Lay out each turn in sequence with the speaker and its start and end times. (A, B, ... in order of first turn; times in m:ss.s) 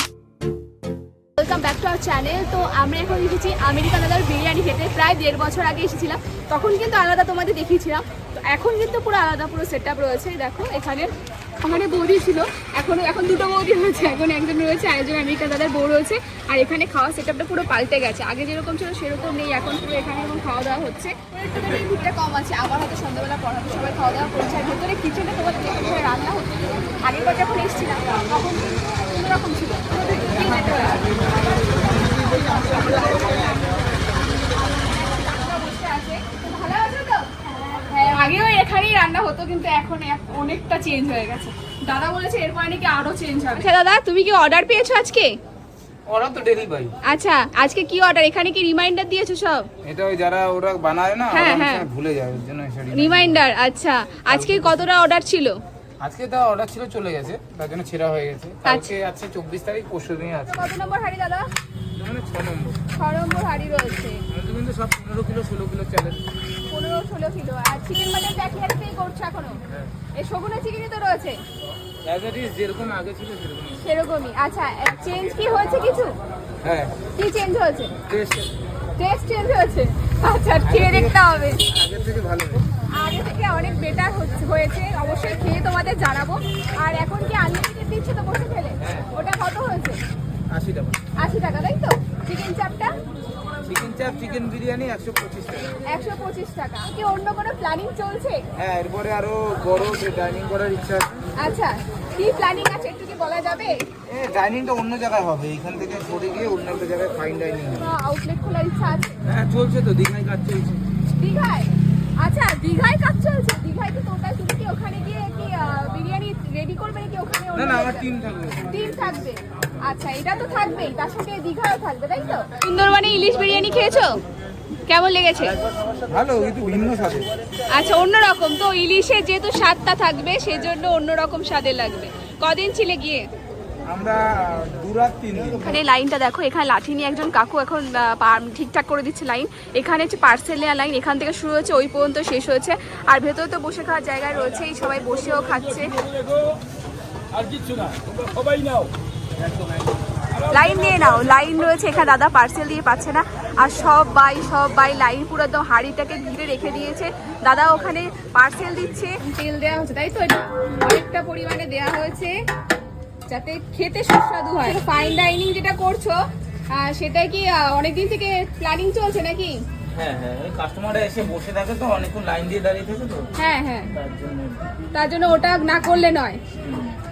0:01.4-0:31.2 A
0:32.0-0:33.6 A
0:34.6-0:45.4 A
0:46.1-0:46.9 B
0:47.0-0:49.7 A
0:49.8-0:53.4 B
0:51.3-0:51.9 A
0:52.9-0:55.6 A
0:56.0-1:00.6 B
0:58.6-0:59.0 A
1:00.5-1:01.5 A
1:02.0-1:02.8 B
1:03.0-1:04.2 A
1:04.3-1:06.2 B
1:06.7-1:09.6 A
1:10.2-1:11.4 A
1:12.0-1:13.8 B
1:13.8-1:16.2 A
1:16.6-1:16.9 B
1:17.2-1:17.9 A
1:18.1-1:18.5 B
1:19.0-1:21.6 A
1:20.6-1:22.6 B
1:22.9-1:30.0 A
1:28.8-1:29.1 B
1:30.5-1:31.0 B
1:31.2-1:33.0 A
1:33.6-1:35.7 B
1:35.8-1:38.4 A
1:38.6-1:41.1 B
1:41.4-1:43.8 A
1:44.1-1:47.9 B
1:47.8-1:49.2 A
1:49.2-1:50.8 B
1:51.1-1:58.1 A
1:57.5-1:58.8 B
1:58.7-2:04.2 A
2:04.8-2:05.6 A
2:06.0-2:07.3 B
2:07.7-2:13.3 A
2:13.8-2:15.8 B
2:15.6-2:26.1 A
2:27.3-2:28.9 B
2:30.4-2:42.4 A
2:43.3-2:49.6 A
2:49.9-2:53.3 B
2:53.4-2:53.9 A
2:53.9-2:54.6 B
2:54.9-2:56.4 A
2:56.6-2:56.9 B